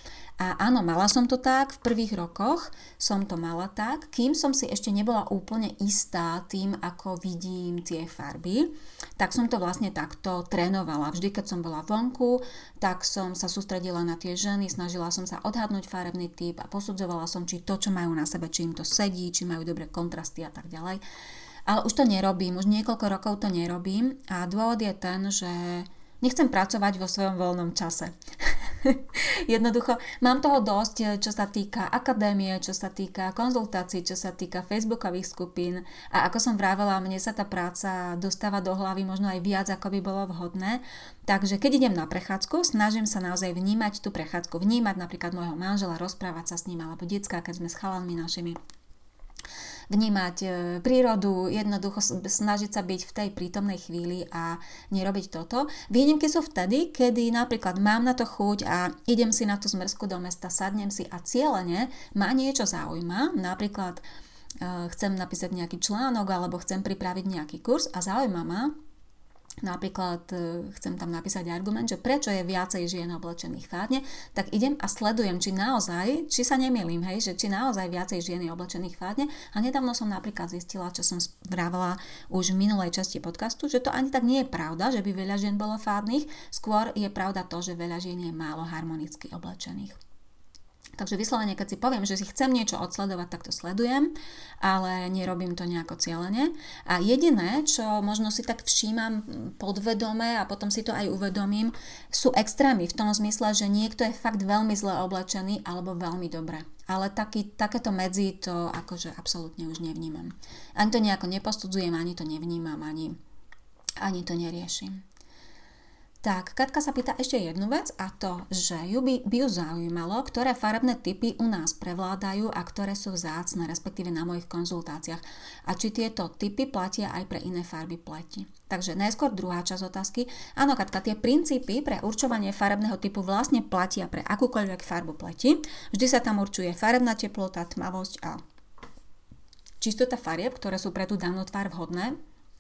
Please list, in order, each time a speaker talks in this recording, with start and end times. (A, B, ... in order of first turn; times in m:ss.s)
0:00.4-0:21.0 A
0:21.6-0:48.6 A
0:49.9-1:04.0 A
1:04.6-1:08.7 A
1:09.6-1:30.0 A
1:31.0-1:53.2 A
1:54.0-1:55.0 A
1:56.2-2:18.4 A
2:19.8-2:22.2 A